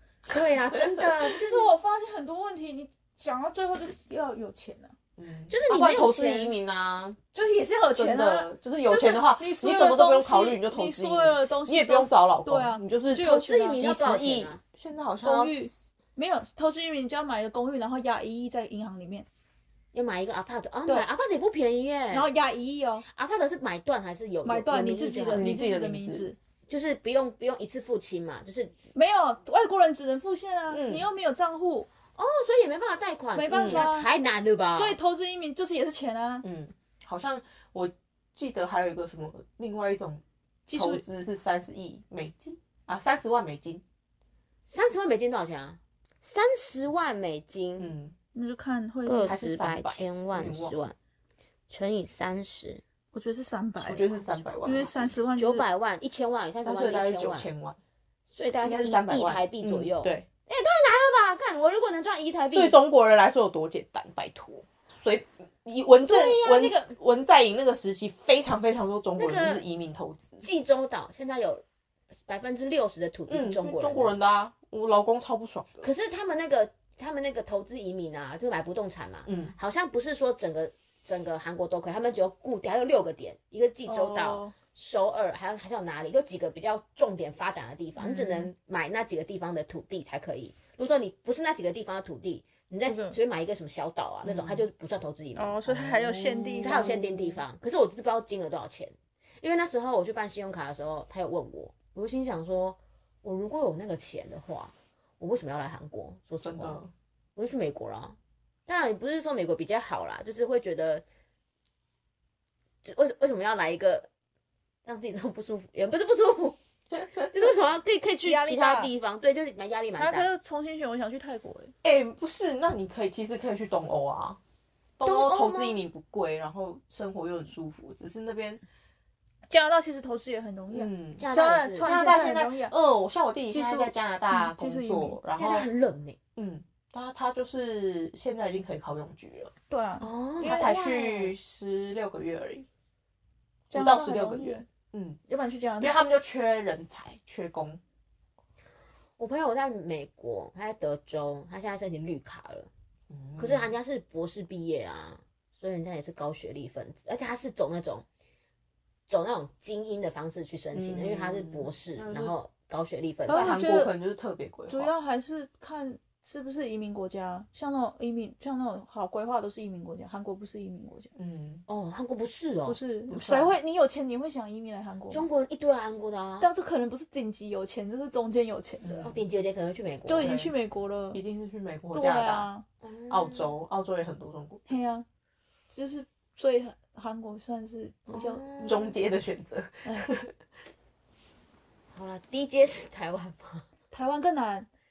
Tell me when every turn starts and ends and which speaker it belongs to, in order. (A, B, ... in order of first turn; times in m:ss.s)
0:00.3-0:01.7 A
0:01.0-0:05.0 B
0:05.2-0:07.2 C
0:05.5-0:06.5 A
0:07.3-0:13.9 B
0:07.9-0:15.8 C
0:13.2-0:14.6 A
0:15.2-0:19.3 B
0:19.9-0:22.3 A
0:22.1-0:23.1 B
0:23.1-0:25.5 A
0:24.4-0:26.4 B
0:25.4-0:26.3 C
0:26.7-0:28.8 A
0:28.9-0:31.9 B
0:30.7-0:31.1 C
0:32.2-0:35.0 A
0:33.4-0:34.1 B
0:33.5-0:33.9 C
0:34.7-0:36.4 B
0:36.4-0:43.8 C
0:40.7-0:41.0 B
0:44.7-0:47.9 A
0:47.8-0:48.2 C
0:48.3-0:49.4 B
0:49.0-0:51.0 A
0:49.2-0:50.8 C
0:51.7-0:52.8 A
0:53.1-0:54.1 B
0:53.8-0:55.2 C
0:54.6-0:55.6 B
0:55.4-0:57.5 A
0:56.6-0:57.8 C
0:58.3-1:02.8 A
0:58.6-1:00.3 C
1:02.5-1:10.4 C
1:06.0-1:07.0 A
1:09.2-1:09.6 A
1:10.4-1:11.6 A
1:12.3-1:14.2 A
1:13.3-1:15.9 C
1:15.8-1:46.8 A
1:19.3-1:19.5 C
1:23.9-1:24.6 B
1:28.0-1:28.5 B
1:32.9-1:33.2 B
1:34.2-1:34.7 C
1:35.4-1:36.9 B
1:36.5-1:37.4 C
1:46.4-1:46.9 C
1:47.4-1:48.2 A
1:48.7-1:51.0 A
1:52.8-1:54.1 A
1:54.9-1:56.6 A
1:57.2-2:00.3 A
1:58.2-1:58.9 B
2:00.0-2:01.7 B
2:01.8-2:04.4 C
2:05.0-2:08.6 C
2:05.0-2:05.8 A
2:09.5-2:12.7 B
2:10.7-2:11.2 C
2:11.2-2:12.2 A
2:11.8-2:15.7 C
2:13.5-2:15.2 B
2:15.4-2:16.2 A
2:16.4-2:19.5 C
2:19.7-2:21.3 B
2:20.0-2:20.7 A
2:20.4-2:22.7 C
2:23.7-2:24.7 B
2:23.7-2:25.2 C
2:25.3-2:26.0 B
2:25.8-2:27.8 C
2:29.2-2:32.7 A
2:33.1-2:33.8 C
2:33.4-2:38.0 A
2:39.1-2:43.5 A
2:40.7-2:42.3 C
2:43.3-2:43.9 B
2:43.3-2:44.9 C
2:44.7-2:51.1 B
2:51.2-2:51.6 C
2:51.7-2:52.8 A
2:52.7-2:55.3 B
2:53.1-2:53.5 C
2:55.1-2:56.5 A
2:56.4-2:59.1 B
2:58.8-2:59.1 C
2:59.0-3:00.3 A
3:00.1-3:01.2 B
3:00.2-3:00.5 C
3:01.1-3:02.5 C
3:01.9-3:02.7 B
3:02.8-3:03.5 A
3:03.1-3:04.8 C
3:04.7-3:05.1 B
3:05.7-3:08.9 B
3:08.1-3:08.9 A
3:08.6-3:10.3 C
3:09.8-3:10.1 B
3:11.9-3:13.7 A
3:13.9-3:14.7 B